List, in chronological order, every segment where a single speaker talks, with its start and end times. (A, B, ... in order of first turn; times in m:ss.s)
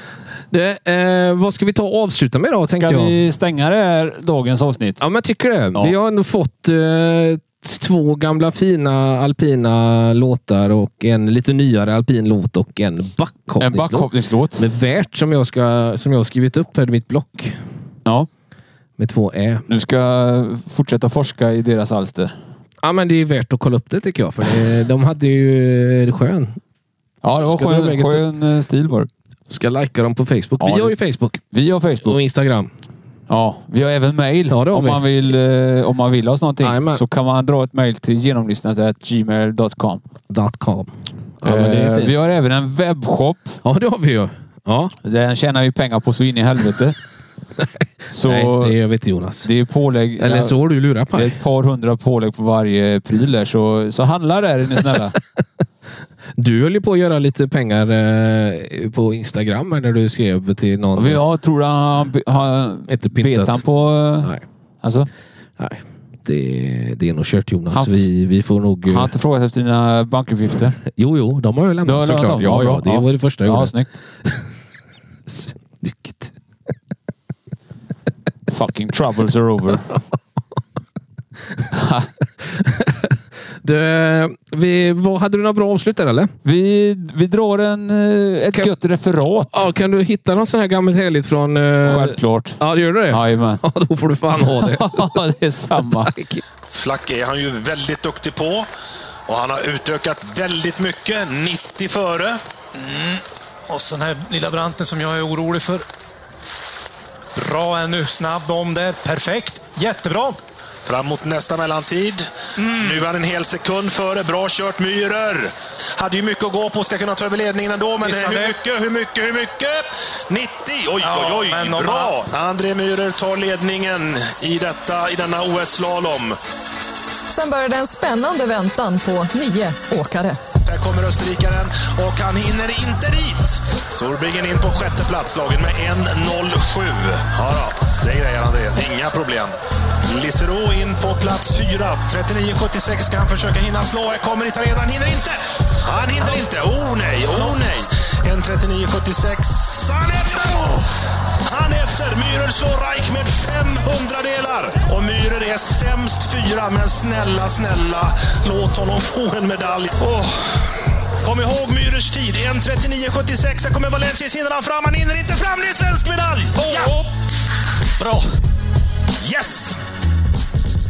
0:00.5-0:03.2 A
0:02.7-0:05.0 B
0:05.0-0:17.6 A
0:13.6-0:14.7 B
0:19.0-0:19.6 A
0:19.7-0:22.4 B
0:22.8-0:26.6 A
0:27.2-0:29.1 B
0:27.4-0:28.3 A
0:29.5-0:31.4 A
0:30.6-0:31.0 B
0:31.5-0:32.2 B
0:32.0-0:32.7 A
0:33.3-0:40.0 B
0:34.5-0:35.0 A
0:36.6-0:37.0 A
0:40.3-0:42.3 A
0:41.4-0:43.6 B
0:43.6-0:45.0 A
0:45.0-0:47.0 B
0:48.1-0:48.8 B
0:48.2-0:49.5 A
0:49.4-0:50.6 B
0:50.2-0:51.4 A
0:51.1-0:55.2 B
0:56.4-1:01.2 A
1:01.0-1:05.1 B
1:02.9-1:03.6 A
1:05.6-1:09.1 A
1:07.7-1:08.0 B
1:08.9-1:10.8 B
1:10.9-1:14.4 A
1:11.8-1:14.0 B
1:15.3-1:16.3 A
1:18.5-1:20.0 B
1:21.8-1:22.0 B
1:22.4-1:26.3 A
1:26.4-1:29.7 B
1:29.5-1:36.4 A
1:31.8-1:33.6 B
1:34.4-1:36.2 B
1:36.7-1:38.7 C
1:39.3-1:42.4 C
1:42.8-1:45.8 D
1:47.4-1:50.4 D
1:50.8-2:06.4 C
1:52.6-1:53.0 D
1:58.0-1:58.6 D
2:01.0-2:02.2 D
2:07.3-2:10.4 E
2:10.6-2:19.5 C
2:20.1-2:30.9 C
2:31.4-2:47.1 C
2:46.6-2:47.0 D
2:49.2-2:49.8 C